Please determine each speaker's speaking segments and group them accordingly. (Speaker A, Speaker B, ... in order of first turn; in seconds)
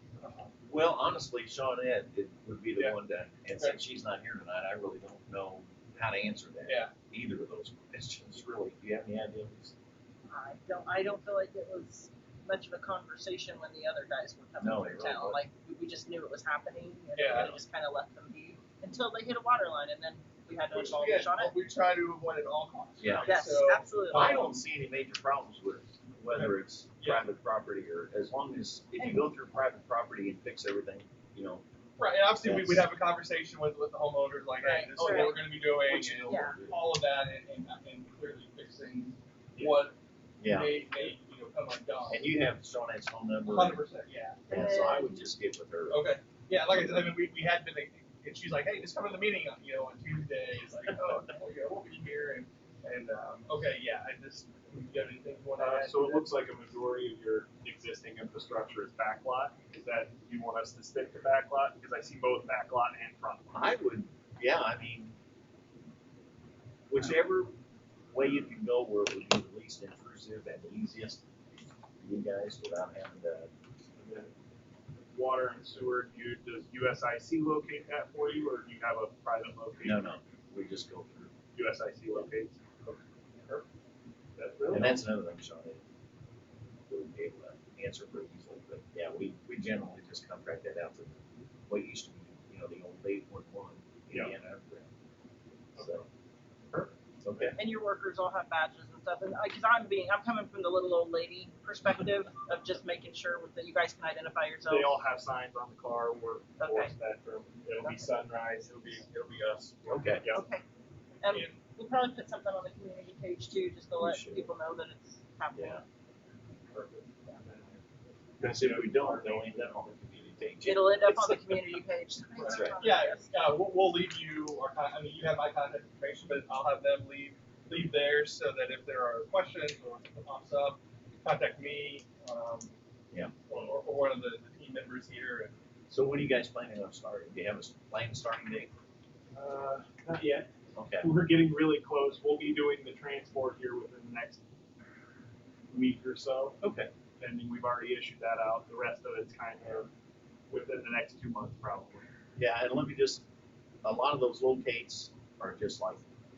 Speaker A: 0.2-0.5, 3.5-3.9, 6.7-6.9, 17.1-17.6, 20.7-24.6, 26.3-27.3, 29.0-29.3, 32.0-42.3, 43.4-44.6, 45.9-56.4, 122.3-132.8, 133.4-135.6
Speaker B: 0.6-9.7, 14.6-15.4, 23.0-23.3, 24.1-31.6, 32.4-32.8, 35.9-36.8, 40.4-40.7, 42.1-43.8, 44.5-46.0, 63.5-65.2, 66.9-67.6, 68.1-71.2, 72.0-73.5, 79.8-81.3, 84.7-85.8, 86.9-94.9, 95.8-96.0, 97.2-97.5, 109.8-110.2, 114.0-114.5, 115.5-115.8, 118.4-121.6, 122.4-122.8, 135.9-138.7, 140.7-141.1, 146.6-146.9, 152.3-153.2, 153.8-156.0
Speaker C: 10.3-21.5, 23.2-24.5, 34.6-36.6, 44.5-45.2, 97.5-105.0, 106.6-106.9, 107.8-108.0, 110.3-110.6, 111.2-115.8, 120.6-123.3
Speaker D: 39.5-39.9, 55.5-63.7, 74.0-74.3, 75.1-80.2, 81.5-83.6, 84.4-85.1, 94.1-94.3, 95.8-96.0, 104.7-110.4, 116.7-117.8, 118.4-119.8, 139.3-140.5, 141.0-144.4, 145.7-146.6, 147.2-149.9, 150.5-152.1